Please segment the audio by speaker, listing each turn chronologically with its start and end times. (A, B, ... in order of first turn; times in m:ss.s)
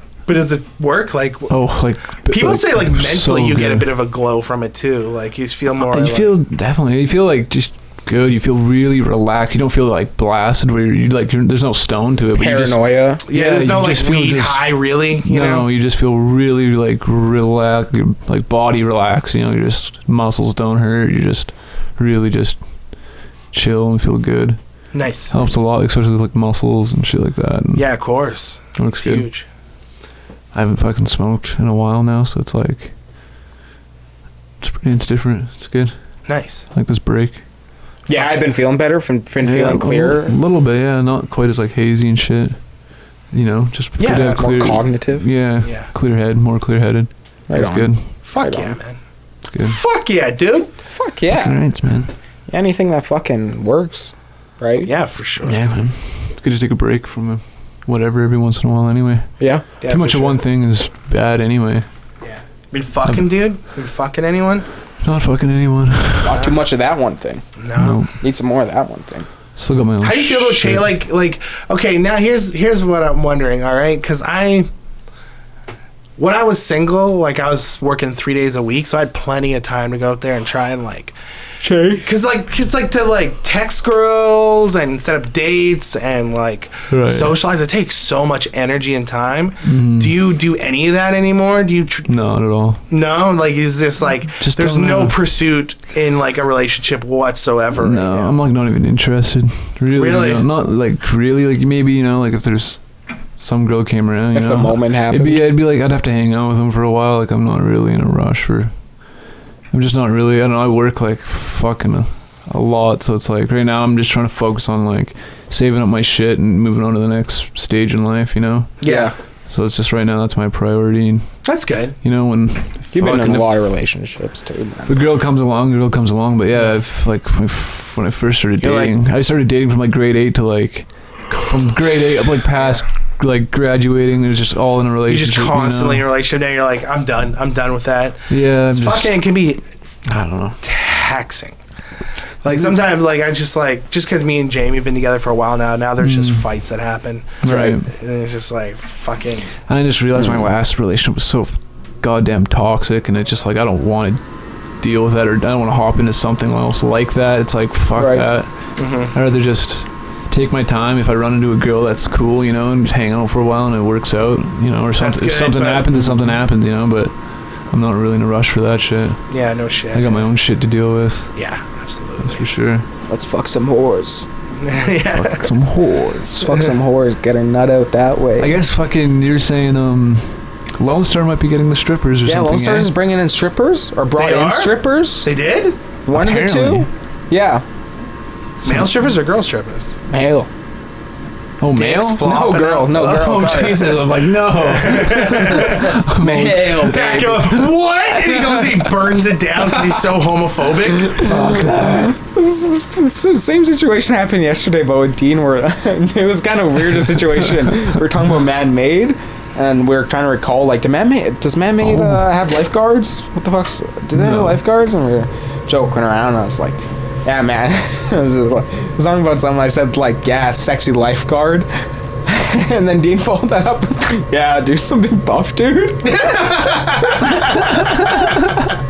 0:00.3-0:01.6 A
0:01.5-0:03.9 B
0:02.3-0:06.3 A
0:05.8-0:22.6 B
0:12.4-0:13.2 C
0:13.3-0:15.7 A
0:23.5-0:24.6 B
0:24.9-0:25.3 A
0:25.3-0:27.9 B
0:27.8-0:29.4 A
0:28.8-0:29.3 B
0:30.5-0:32.9 B
0:34.6-0:35.9 B
0:36.3-0:36.7 A
0:36.7-0:37.4 B
0:38.1-0:40.4 C
0:38.1-0:38.5 A
0:39.4-0:42.6 B
0:43.3-0:48.1 B
0:44.0-0:44.7 A
0:44.0-0:45.3 C
0:45.6-0:45.9 A
0:47.5-0:48.8 C
0:48.2-0:49.0 A
0:49.5-0:49.8 B
0:49.6-0:50.7 A
0:50.9-0:51.6 C
0:51.3-0:52.1 B
0:52.5-0:54.9 C
0:54.8-0:55.7 A
0:55.4-1:01.9 B
0:59.4-0:59.6 C
0:59.8-1:00.4 A
1:02.2-1:04.7 A
1:05.0-1:06.4 B
1:06.2-1:07.5 C
1:07.6-1:08.0 A
1:07.8-1:08.2 B
1:08.2-1:09.3 C
1:09.6-1:10.9 B
1:10.0-1:14.7 A
1:16.2-1:21.2 A
1:21.6-1:22.1 C
1:22.0-1:32.1 A
1:26.9-1:27.4 B
1:29.6-1:30.2 B
1:32.1-1:32.8 B
1:32.9-1:38.4 A
1:34.4-1:35.2 B
1:37.8-1:42.8 B
1:40.0-1:40.4 A
1:43.4-1:48.7 B
1:44.3-1:45.5 C
1:49.7-1:58.8 B
1:58.8-1:59.1 A
1:58.8-1:59.1 C
1:59.5-2:01.4 B
2:01.4-2:02.0 A
2:02.0-2:03.6 B
2:02.9-2:05.0 C
2:04.9-2:16.1 B
2:08.6-2:08.9 A
2:12.6-2:12.8 A
2:15.1-2:19.7 A
2:18.3-2:19.2 B
2:20.1-2:20.6 B
2:20.6-2:21.6 A
2:22.4-2:29.5 A
2:26.0-2:26.5 B
2:27.4-2:27.9 B
2:27.5-2:27.8 C
2:29.7-2:34.2 B
2:30.2-2:30.5 C
2:34.8-2:38.5 B
2:38.0-2:38.3 C
2:38.8-2:39.1 A
2:39.1-2:47.1 B
2:45.0-2:46.3 A
2:47.7-2:49.3 B
2:49.3-2:50.3 A
2:49.9-2:51.3 B
2:51.4-2:52.5 A
2:52.2-2:52.9 B
2:53.1-2:54.3 C
2:54.6-2:55.5 A
2:55.1-2:56.6 B
2:56.4-2:58.6 C
2:58.4-3:02.9 B
3:02.3-3:05.3 C
3:04.2-3:05.8 A
3:06.1-3:07.6 C
3:06.1-3:06.9 B
3:08.6-3:10.0 A
3:08.6-3:08.9 B
3:10.1-3:10.5 C
3:11.6-3:17.7 B
3:11.7-3:13.2 A
3:12.2-3:14.2 C
3:14.6-3:16.0 A
3:16.1-3:17.5 C
3:16.8-3:21.3 A
3:21.1-3:41.7 C
3:21.2-3:22.2 B
3:31.8-3:32.2 B
3:34.1-3:34.6 B
3:42.3-3:48.0 C
3:46.0-3:48.4 A